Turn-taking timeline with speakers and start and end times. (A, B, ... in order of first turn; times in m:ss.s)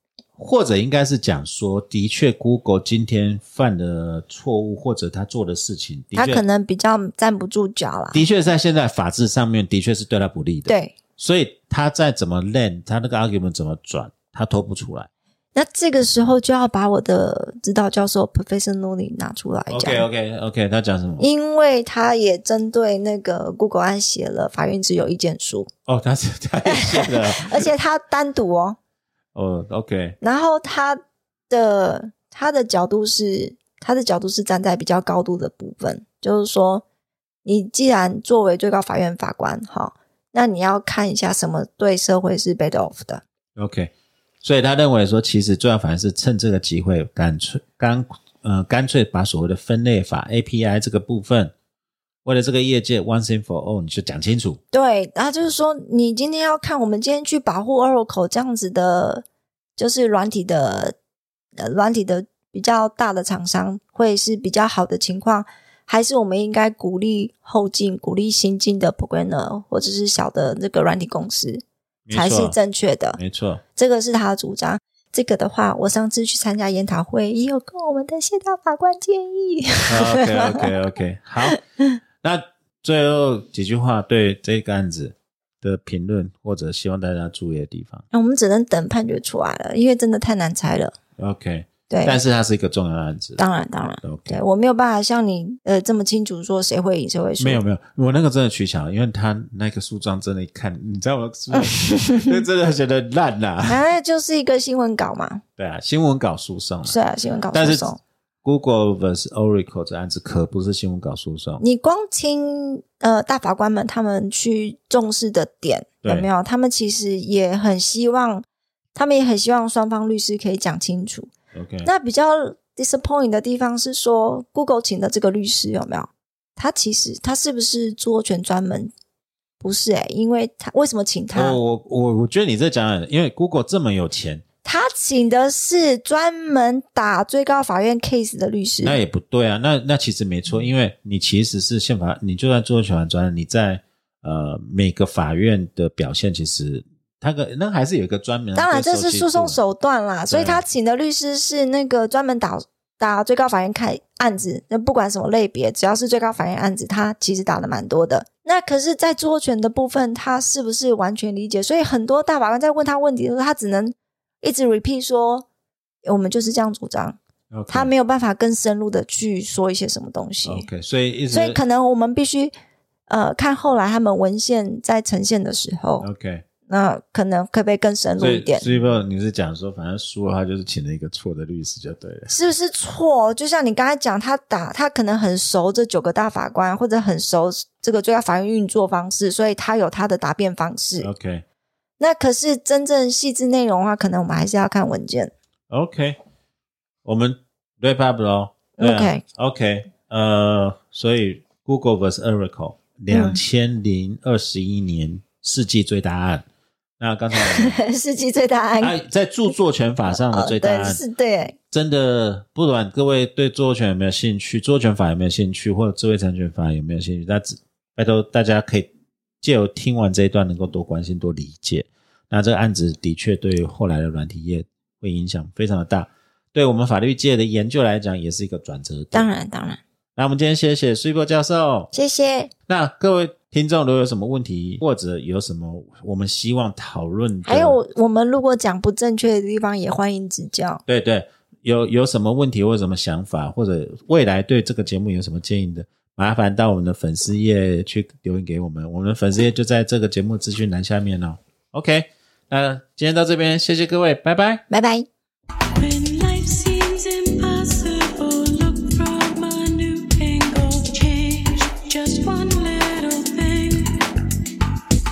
0:00.4-0:06.4 A
0:06.2-0:08.2 B
0:08.1-0:15.1 A
0:10.7-0:11.0 B
0:15.6-0:20.1 B
0:19.7-0:21.2 A
0:21.2-0:25.7 B
0:25.9-0:27.7 A
0:26.6-0:28.8 B
0:29.4-0:30.2 A
0:30.2-0:36.8 B
0:37.4-0:43.2 B
0:43.6-0:51.5 A
0:52.2-0:54.6 A
0:54.7-0:59.2 B
0:59.8-1:01.0 B
1:01.6-1:11.6 B
1:12.1-1:12.6 A
1:12.1-1:13.2 B
1:13.2-1:13.6 A
1:13.8-1:20.7 B
1:19.9-1:21.6 A
1:22.2-1:28.0 A
1:28.1-1:31.0 B
1:31.2-1:33.4 A
1:31.9-1:32.2 B
1:33.4-1:37.6 B
1:34.0-1:34.4 A
1:37.4-1:43.8 A
1:41.5-1:42.4 B
1:43.7-1:45.4 B
1:45.6-1:47.0 A
1:46.9-1:48.0 B
1:47.5-1:47.9 A
1:48.4-1:51.6 A
1:51.6-1:58.4 B
1:56.0-1:56.3 A
1:59.0-2:01.3 B
2:01.5-2:01.9 A
2:01.8-2:08.9 B
2:09.6-2:11.6 B
2:11.3-2:14.4 A
2:14.6-2:19.0 B
2:18.8-2:29.6 A
2:28.6-2:45.5 B
2:30.3-2:30.6 A
2:46.0-2:47.2 B
2:47.5-2:47.9 A
2:47.7-2:50.7 B
2:50.4-2:51.6 A
2:51.3-2:52.5 B
2:53.1-2:56.1 B
2:56.0-2:56.4 A
2:56.7-2:58.7 B
2:58.2-3:02.3 A
3:02.3-3:11.1 B
3:11.0-3:11.4 A
3:12.0-3:15.3 B
3:15.7-3:16.2 A
3:17.0-3:26.4 A
3:18.8-3:19.2 B
3:23.1-3:23.4 B
3:27.0-3:27.8 A
3:27.3-3:29.0 B
3:28.8-3:31.0 A
3:30.1-3:31.6 B
3:31.7-3:38.9 A
3:39.4-3:49.3 A
3:49.1-3:49.8 B
3:50.2-3:51.9 A
3:51.9-3:52.5 B
3:52.7-3:57.8 A
3:57.4-4:00.8 B
4:00.9-4:14.6 A
4:14.7-4:15.1 B
4:15.8-4:24.4 C